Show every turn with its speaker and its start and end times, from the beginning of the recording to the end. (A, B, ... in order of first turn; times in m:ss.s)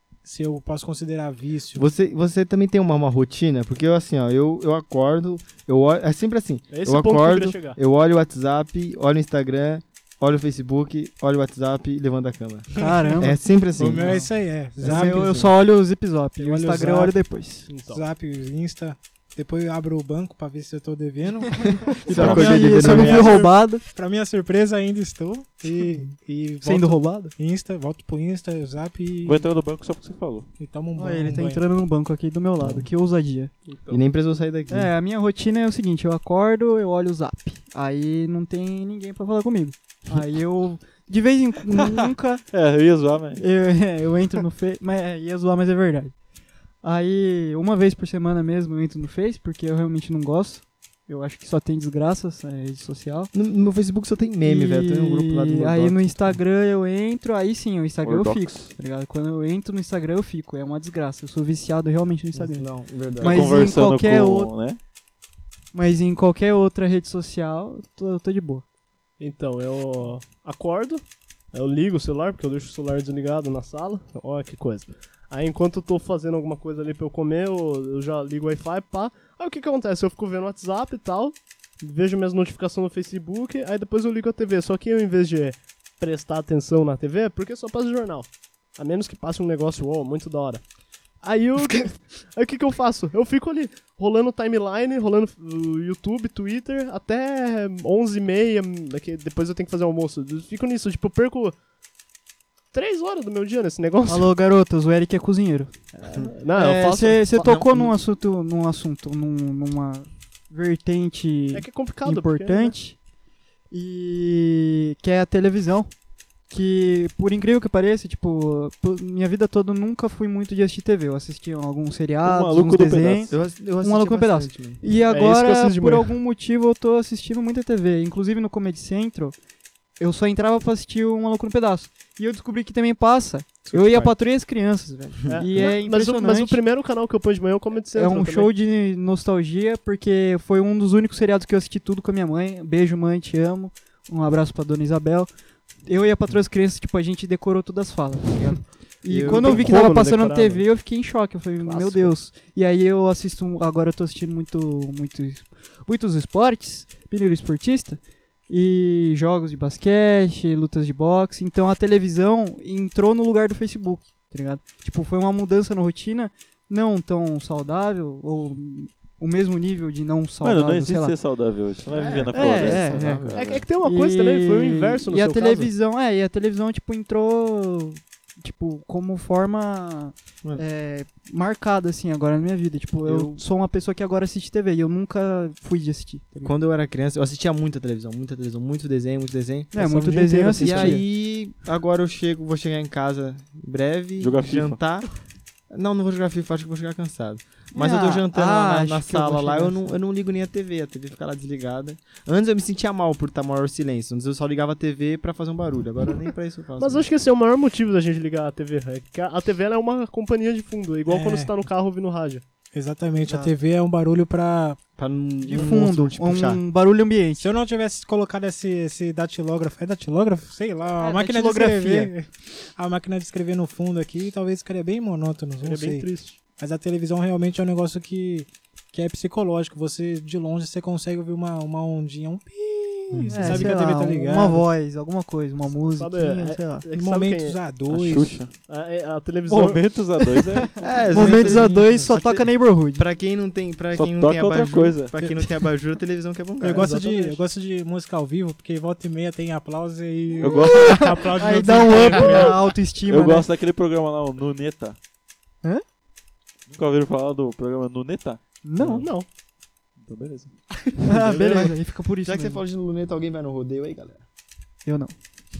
0:00.2-0:01.9 A
0:01.8-0:14.2 B
0:06.7-0:07.8 C
0:12.8-0:14.3 D
0:12.8-0:13.2 A
0:13.8-0:15.6 A
0:14.8-0:15.6 B
0:14.8-0:17.7 D
0:16.4-0:17.2 A
0:17.7-0:18.0 C
0:17.9-0:29.5 A
0:21.6-0:23.4 B
0:22.1-0:23.8 D
0:26.6-0:27.3 D
0:29.2-0:30.5 E
0:30.6-0:31.6 A
0:31.0-0:33.5 D
0:32.6-0:32.9 B
0:33.7-0:34.0 C
0:33.9-0:34.9 B
0:34.7-0:42.4 D
0:41.7-0:43.4 E
0:43.4-0:46.1 D
0:46.8-0:53.3 D
0:53.3-0:56.4 B
0:54.4-1:02.7 D
0:58.0-0:58.7 E
1:02.3-1:03.6 B
1:03.2-1:04.5 D
1:03.2-1:04.8 E
1:05.7-1:08.6 D
1:09.2-1:30.6 C
1:31.2-1:41.6 C
1:42.7-1:44.3 C
1:44.1-1:45.7 D
1:45.9-1:47.6 C
1:46.5-1:53.0 D
1:47.4-1:47.9 B
1:51.5-1:52.8 C
1:53.7-1:55.9 D
1:56.5-2:09.4 D
2:02.2-2:03.4 E
2:03.3-2:04.8 B
2:05.1-2:06.1 C
2:10.0-2:16.6 D
2:13.7-2:14.1 B
2:15.3-2:15.7 B
2:15.3-2:18.5 C
2:18.0-2:25.3 D
2:25.9-2:51.1 D
2:28.3-2:29.8 B
2:29.3-2:30.7 C
2:31.6-2:32.1 C
2:50.4-2:53.6 E
2:51.9-2:53.5 B
2:52.3-3:06.5 D
2:53.3-2:55.7 C
3:03.0-3:03.4 B
3:06.4-3:09.8 B
3:09.7-3:11.0 D
3:09.8-3:11.0 A
3:10.6-3:15.1 B
3:14.2-3:14.8 E
3:15.7-3:27.1 B
3:17.7-3:19.9 D
3:26.8-3:32.4 C
3:31.1-3:31.5 A
3:32.7-3:34.8 A
3:35.0-3:36.6 B
3:35.4-3:37.5 D
3:37.4-3:54.7 A
3:41.0-3:42.1 D
3:45.6-3:46.4 C
3:53.1-3:53.7 B
3:53.3-3:56.9 D
3:55.9-3:57.6 C
3:56.9-3:58.4 A
3:57.9-3:58.5 E
3:58.7-3:59.8 C
3:59.5-4:00.8 E
4:00.8-4:06.9 B
4:01.1-4:03.0 D
4:01.2-4:02.0 A
4:03.9-4:05.3 E
4:06.6-4:12.7 A
4:06.7-4:07.4 C
4:10.4-4:11.2 E
4:10.6-4:13.5 D
4:13.1-4:15.0 E
4:16.7-4:19.0 E
4:18.6-4:19.1 D
4:19.0-4:19.3 C
4:20.0-4:20.6 E
4:21.0-4:22.6 D
4:21.1-4:24.2 B
4:24.8-4:25.1 D